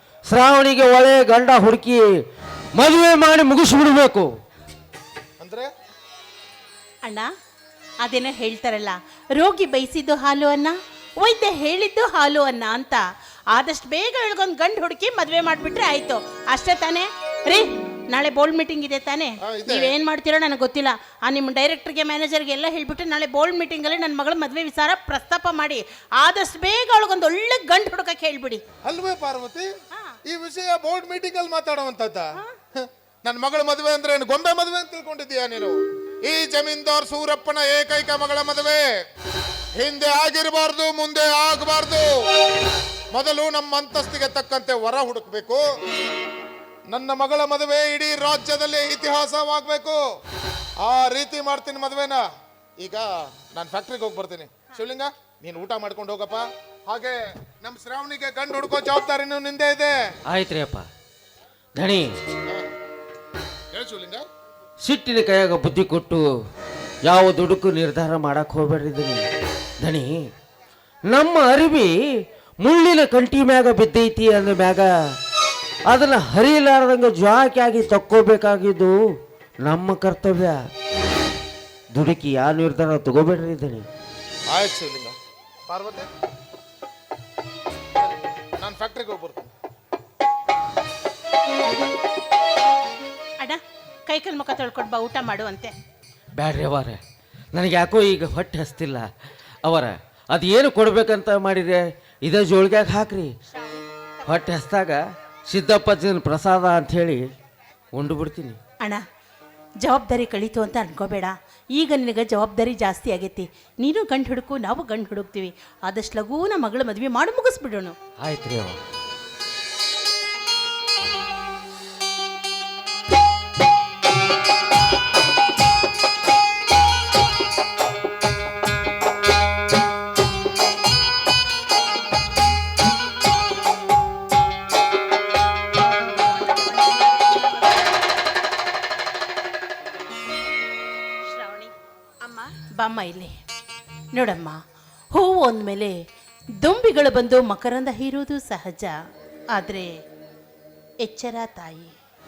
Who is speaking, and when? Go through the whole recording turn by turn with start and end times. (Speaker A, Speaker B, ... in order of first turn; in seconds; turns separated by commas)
Speaker A: 0.3-2.0, Speaker A: 2.8-4.3, Speaker B: 5.4-5.7, Speaker C: 8.0-13.0, Speaker C: 13.5-28.6, Speaker B: 19.4-19.9, Speaker B: 28.9-29.7, Speaker B: 30.3-38.8, Speaker B: 39.8-42.1, Speaker B: 43.1-45.6, Speaker B: 46.9-50.0, Speaker B: 50.8-52.2, Speaker B: 52.8-60.0, Speaker A: 60.3-60.9, Speaker A: 61.8-62.1, Speaker B: 63.7-64.2, Speaker A: 64.8-66.3, Speaker A: 67.1-69.3, Speaker A: 69.8-70.2, Speaker A: 71.1-72.0, Speaker A: 72.6-74.9, Speaker A: 75.9-79.0, Speaker A: 79.7-80.6, Speaker A: 82.0-83.9, Speaker B: 84.5-85.2, Speaker B: 85.7-86.1, Speaker B: 88.0-89.5, Speaker C: 93.4-95.7, Speaker A: 96.4-97.0, Speaker A: 97.5-99.1, Speaker A: 99.7-103.3, Speaker A: 104.3-107.2, Speaker A: 108.0-108.6, Speaker C: 109.8-118.0, Speaker A: 118.2-118.8, Speaker C: 141.3-141.7, Speaker C: 142.8-143.3, Speaker C: 144.1-144.6, Speaker C: 145.1-145.9, Speaker C: 146.6-148.9, Speaker C: 149.5-149.9, Speaker C: 151.0-151.9